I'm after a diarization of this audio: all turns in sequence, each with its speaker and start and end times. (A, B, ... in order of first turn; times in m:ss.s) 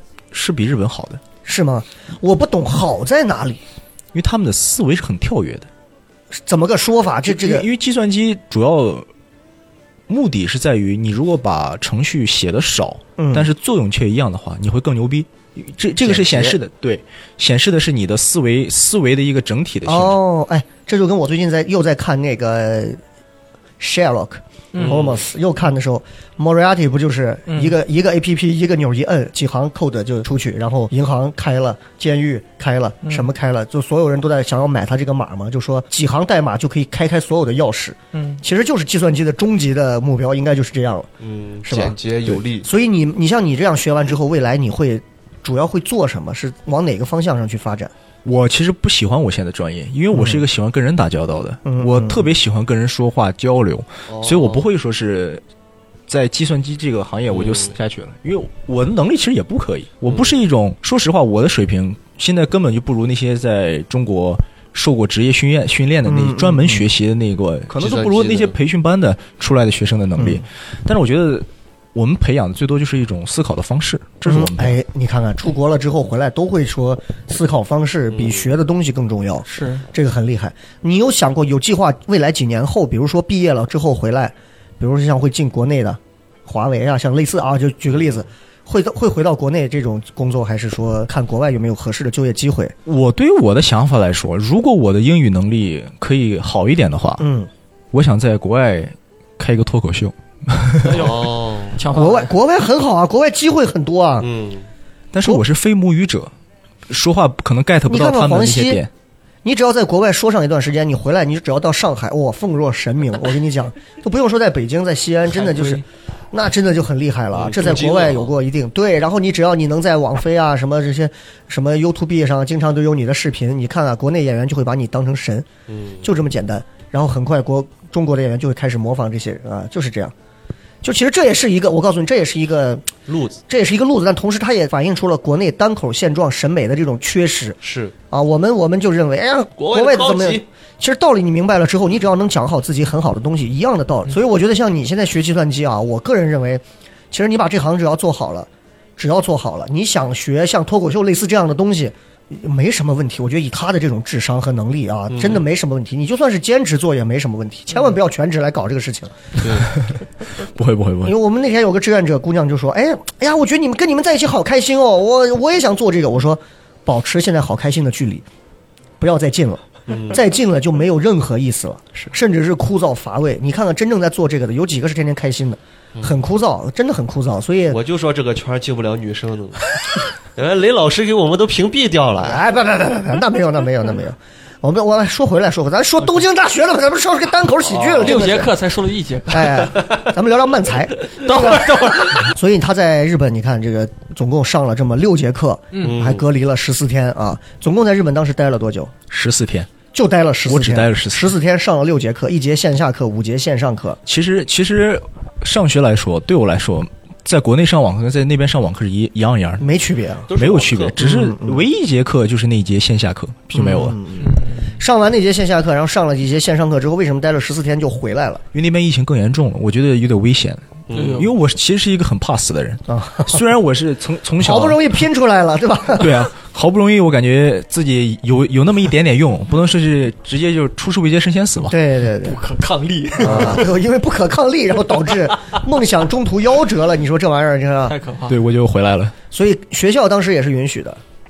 0:00.3-0:01.2 A
0:01.4-0:03.6 B
0:04.1-0:05.7 A
0:06.4-0:07.6 B
0:07.2-0:09.1 A
0:10.1-0:20.2 A
0:13.2-0:13.5 B
0:16.1-0:16.5 B
0:19.8-0:23.0 B
0:23.8-0:41.1 B
0:24.7-0:25.0 C
0:24.8-0:25.2 D
0:27.5-0:27.8 C
0:33.0-0:33.3 C
0:38.1-0:38.4 C
0:41.2-0:42.7 D
0:41.7-0:42.0 B
0:42.6-0:47.9 B
0:48.2-0:55.4 A
0:50.1-0:50.4 B
0:51.6-0:52.3 B
0:54.1-0:54.6 D
0:56.1-1:14.8 A
0:57.3-0:57.7 D
1:00.1-1:00.4 D
1:06.1-1:06.9 B
1:07.7-1:08.6 D
1:10.2-1:10.4 B
1:14.3-1:32.8 B
1:18.1-1:18.5 D
1:19.5-1:19.9 C
1:32.9-1:37.2 A
1:37.2-1:37.5 B
1:37.9-1:41.1 A
1:40.8-1:42.3 C
1:40.9-1:41.8 D
1:41.9-1:44.3 B
1:44.2-1:44.7 D
1:45.1-1:46.3 A
1:46.9-1:48.9 A
1:47.9-1:48.8 B
1:49.4-2:05.5 B
1:55.4-1:55.8 C
1:57.3-1:58.4 D
2:05.7-2:06.0 D
2:06.0-2:10.1 B
2:10.8-2:12.9 B
2:13.1-2:13.4 D
2:13.5-2:17.6 B
2:17.6-2:17.9 D
2:18.1-2:39.4 B
2:19.6-2:20.4 D
2:35.1-2:35.4 D
2:39.4-2:39.7 D
2:40.5-2:41.2 A
2:41.0-2:48.2 B
2:49.0-2:57.8 B
2:49.9-2:50.2 D
2:57.7-2:59.8 D
3:00.4-3:02.4 D
3:02.2-3:08.5 B
3:07.6-3:08.3 D
3:08.0-3:09.8 C
3:09.3-3:18.9 B
3:11.2-3:12.3 C
3:15.7-3:16.0 C
3:15.8-3:16.3 D
3:19.1-3:19.7 A
3:19.9-3:24.0 B
3:20.4-3:21.3 A
3:24.1-3:29.7 A
3:29.6-3:30.3 B
3:30.3-3:31.0 D
3:30.3-3:34.0 A
3:31.0-3:31.6 B
3:33.5-3:38.4 B
3:34.2-3:34.8 C
3:38.5-3:45.0 A
3:40.9-3:41.3 D
3:40.9-3:41.3 C
3:42.9-3:43.4 B
3:44.4-3:46.1 B
3:46.0-3:51.8 A
3:51.7-3:52.4 B
3:52.2-3:53.7 C
3:53.2-3:58.0 B
3:57.9-3:58.4 C
3:58.3-3:59.2 A
3:59.3-4:01.0 B